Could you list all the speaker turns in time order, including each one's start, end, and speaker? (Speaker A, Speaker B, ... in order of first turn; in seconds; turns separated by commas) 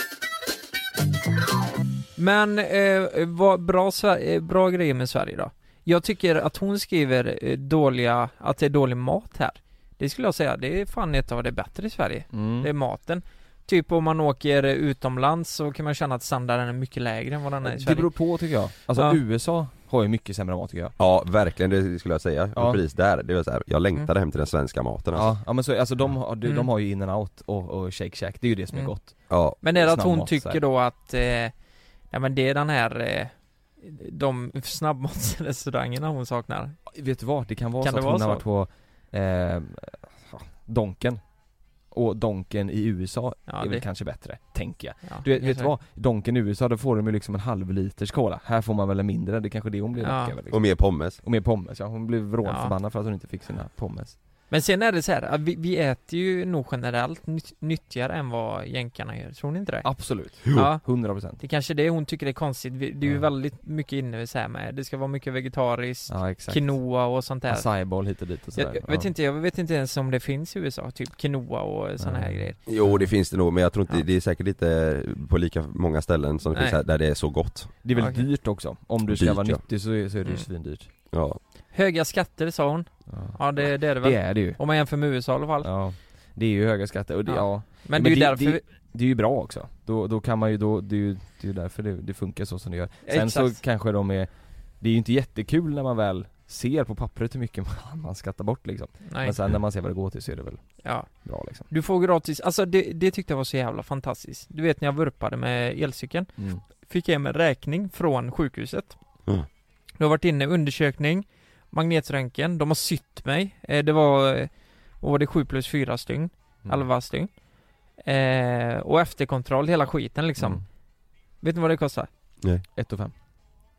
Speaker A: 2.2-19.2, Speaker B: 12.3-12.7, Speaker B: 17.6-21.0, Speaker C: 21.0-25.3, Speaker B: 22.6-22.8, Speaker B: 25.1-30.6, Speaker A: 26.4-26.7, Speaker A: 28.7-37.0, Speaker C: 29.3-29.6, Speaker B: 37.0-54.2, Speaker A: 37.8-38.5, Speaker A: 43.5-43.9, Speaker A: 45.0-45.7, Speaker A: 50.0-50.3, Speaker C: 50.5-51.2, Speaker A: 52.4-52.7, Speaker A: 54.5-72.6, Speaker B: 59.8-61.4, Speaker B: 63.0-63.3, Speaker B: 66.1-69.1, Speaker B: 72.0-73.1, Speaker C: 72.7-77.8, Speaker A: 76.5-76.8, Speaker B: 77.8-80.9, Speaker A: 78.0-78.2, Speaker C: 79.1-79.6, Speaker C: 81.1-81.4, Speaker A: 81.7-85.7, Speaker B: 83.1-85.1, Speaker B: 85.6-101.7, Speaker A: 87.2-88.6, Speaker A: 93.1-93.6, Speaker A: 99.1-99.4, Speaker A: 100.8-109.4, Speaker B: 106.4-106.6, Speaker A: 110.0-122.1, Speaker B: 120.4-120.6, Speaker B: 122.7-123.1